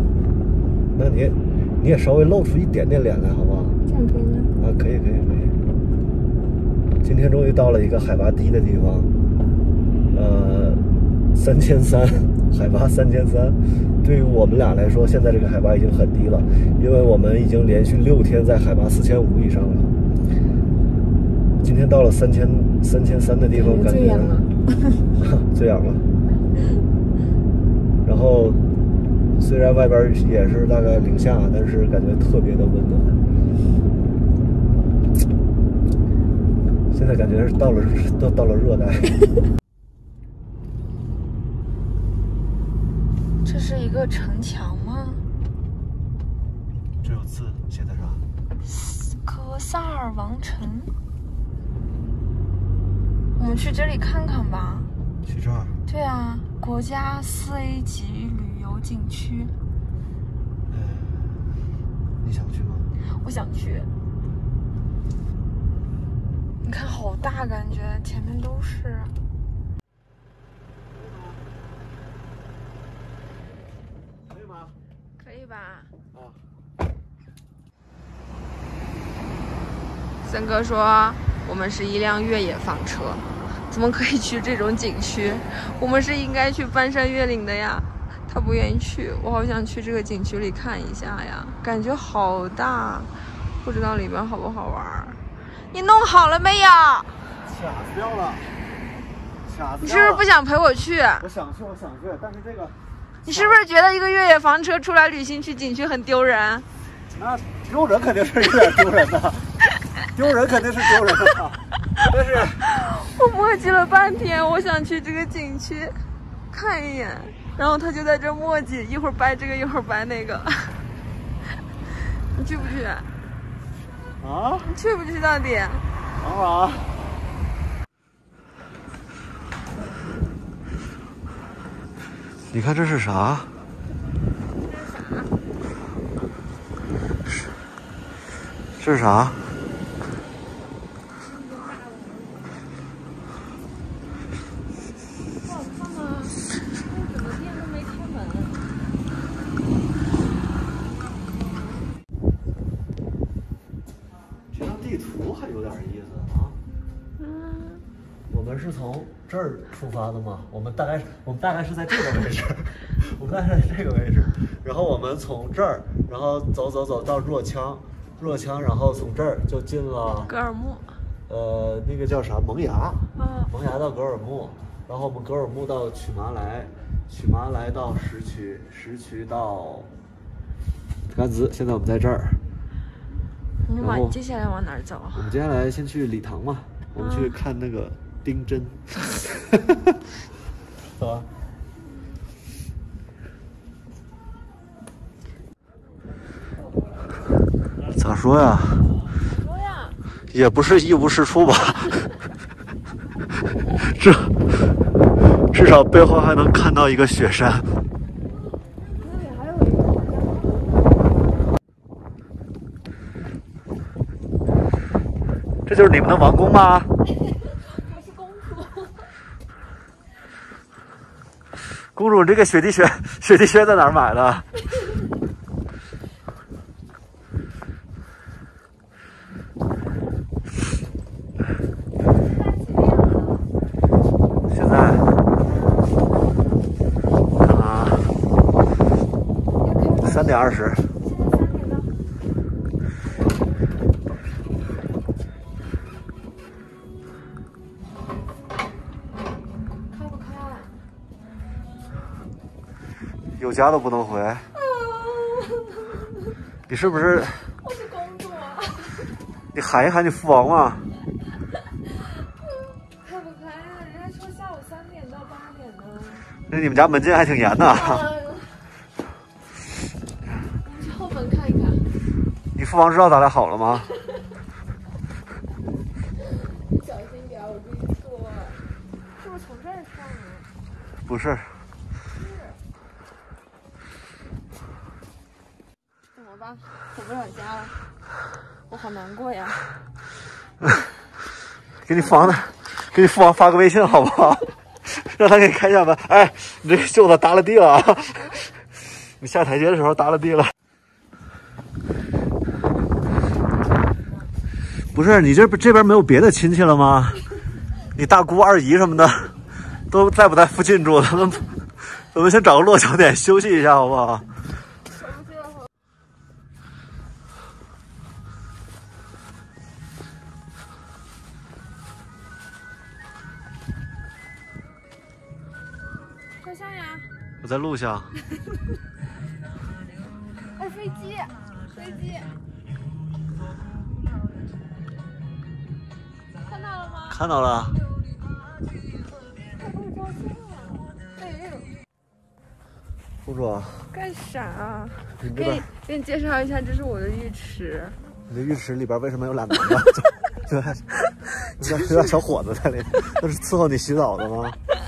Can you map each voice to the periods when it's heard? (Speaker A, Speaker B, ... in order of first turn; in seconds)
Speaker A: 0.9-3.8, 4.6-5.6, 7.0-9.1, 10.1-19.9, 21.6-24.4, 25.2-26.1, 28.0-28.6, 29.3-33.2, 36.9-39.3, 47.0-48.2, 55.2-55.8, 60.7-61.5, 62.2-62.9, 70.9-71.4, 74.3-74.7, 76.1-76.4, 97.4-98.4, 99.4-100.2, 101.2-103.6, 107.1-109.5, 110.1-112.6, 124.2-124.7, 126.2-127.0, 132.5-133.5, 138.8-139.5, 154.5-156.6, 158.3-170.3, 171.3-179.9, 181.1-182.4, 183.8-184.2, 185.1-189.8, 190.9-191.3, 197.8-198.9, 200.3-202.1, 203.7-207.7, 215.7-216.9, 221.8-224.5, 234.5-235.1, 237.4-238.1, 240.0-240.9, 253.4-254.5, 256.7-257.5, 259.5-260.8, 266.5-268.0, 272.5-273.9, 281.0-281.6, 291.8-298.4, 299.1-300.5, 304.9-307.3, 307.9-309.4, 309.9-314.3, 327.4-328.1, 337.1-337.8, 343.2-343.9, 345.2-345.6, 348.3-354.6
Speaker B: 3.9-4.5, 23.5-25.0, 43.4-45.2, 48.6-50.9, 53.4-54.9, 55.9-59.5, 63.1-63.9, 66.6-69.1, 75.2-75.9, 80.2-97.3, 99.8-101.2, 103.2-106.7, 112.6-120.9, 122.1-123.1, 124.6-125.8, 134.6-135.3, 141.2-142.7, 145.4-148.7, 157.2-157.8, 170.2-171.0, 173.2-173.5, 183.7-185.3, 186.9-187.3, 199.2-200.0, 208.9-211.0, 217.4-219.1, 232.1-233.5, 235.4-236.1, 239.6-242.0, 249.9-250.7, 254.5-256.3, 257.4-259.2, 262.8-266.3, 267.5-268.7, 270.6-271.9, 273.9-274.2, 276.3-280.5, 282.1-282.6, 286.1-287.8, 288.7-289.7, 314.9-315.7, 326.4-327.1, 330.5-332.3, 336.4-337.2, 339.6-341.7, 343.9-348.0